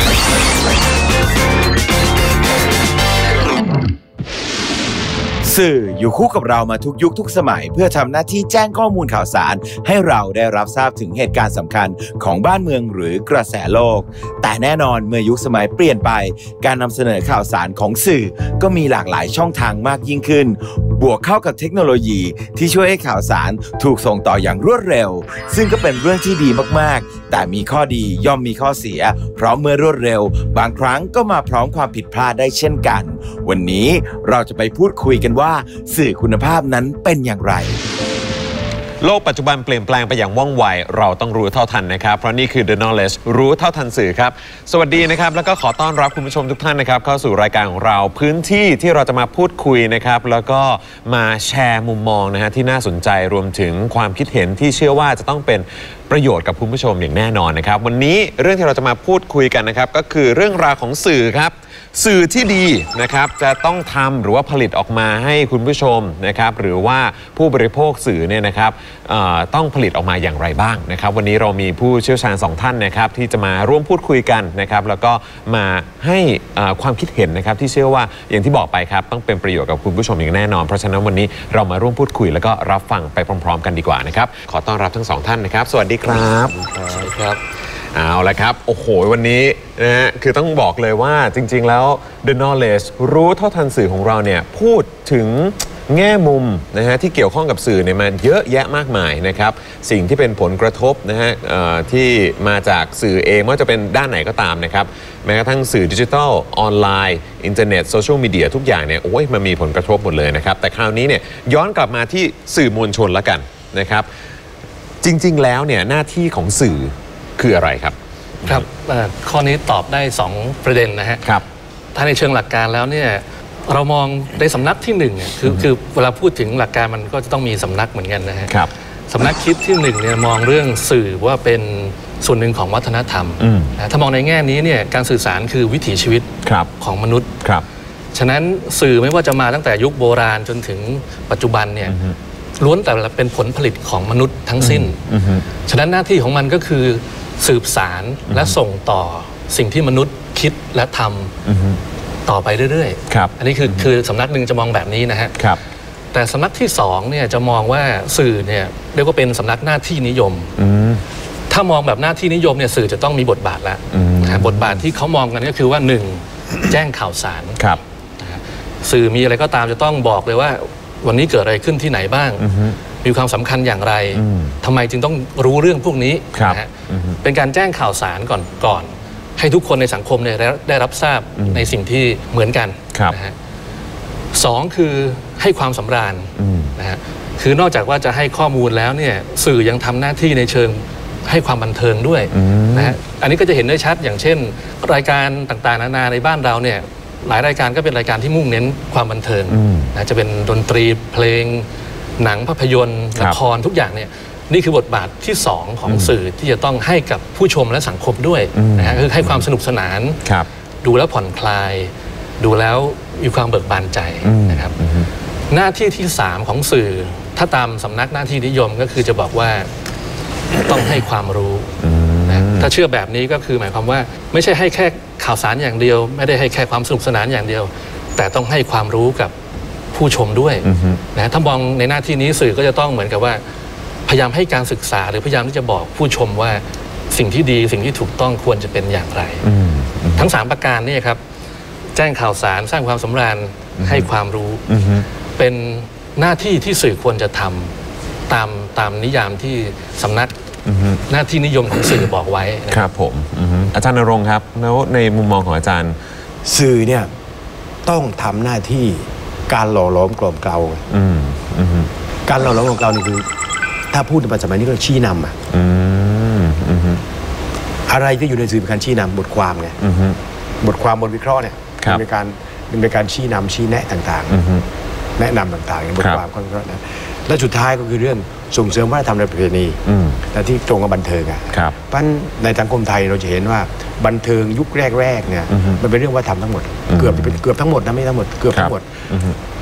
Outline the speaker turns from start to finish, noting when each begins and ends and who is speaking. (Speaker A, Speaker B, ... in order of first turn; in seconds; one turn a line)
Speaker A: 5.4-37.8
Speaker B: 39.0-86.6
Speaker C: 86.9-87.4
Speaker B: 87.9-114.1
Speaker B: 115.0-118.6
Speaker C: 118.4-121.2
Speaker C: 121.9-128.6
Speaker C: 129.1-137.3
Speaker B: 133.4-133.7
Speaker B: 136.4-136.7
Speaker C: 138.1-141.9
Speaker B: 141.9-142.1
Speaker C: 142.6-145.0
Speaker B: 144.6-145.4
Speaker C: 145.7-151.3
Speaker B: 151.4-151.8
Speaker C: 152.2-155.4
Speaker B: 153.1-153.8
Speaker C: 156.1-160.5
Speaker B: 160.6-161.0
Speaker C: 161.5-167.6
Speaker B: 163.9-164.8
Speaker C: 168.2-172.5
Speaker B: 172.4-172.8
Speaker C: 173.0-176.7
Speaker B: 174.1-174.6
Speaker B: 176.3-177.2
Speaker C: 177.2-183.3
Speaker C: 184.3-201.7
Speaker B: 186.4-186.7
Speaker B: 192.3-192.9
Speaker B: 199.5-199.9
Speaker C: 202.2-210.2
Speaker B: 205.9-206.1
Speaker B: 208.5-209.4
Speaker C: 210.8-214.7
Speaker B: 214.2-215.1
Speaker C: 215.5-219.7
Speaker C: 220.6-221.7
Speaker B: 221.8-222.7
Speaker C: 222.3-229.3
Speaker C: 229.9-233.4
Speaker B: 230.6-231.0
Speaker C: 234.1-239.4
Speaker B: 239.4-240.2
Speaker C: 240.2-241.2
Speaker C: 241.9-244.6
Speaker B: 243.8-244.1
Speaker B: 244.7-245.1
Speaker C: 245.4-247.7
Speaker C: 248.3-250.3
Speaker B: 250.7-251.0
Speaker C: 251.1-252.8
Speaker B: 252.7-256.0
Speaker D: 256.4-257.1
Speaker D: 257.8-260.8
Speaker B: 260.9-261.9
Speaker D: 262.3-263.2
Speaker D: 263.9-265.4
Speaker B: 265.5-267.0
Speaker D: 267.9-269.8
Speaker B: 269.8-270.2
Speaker D: 270.6-274.4
Speaker B: 274.3-274.6
Speaker D: 275.2-288.9
Speaker B: 279.9-280.2
Speaker B: 285.5-285.8
Speaker B: 286.9-287.4
Speaker B: 288.5-289.4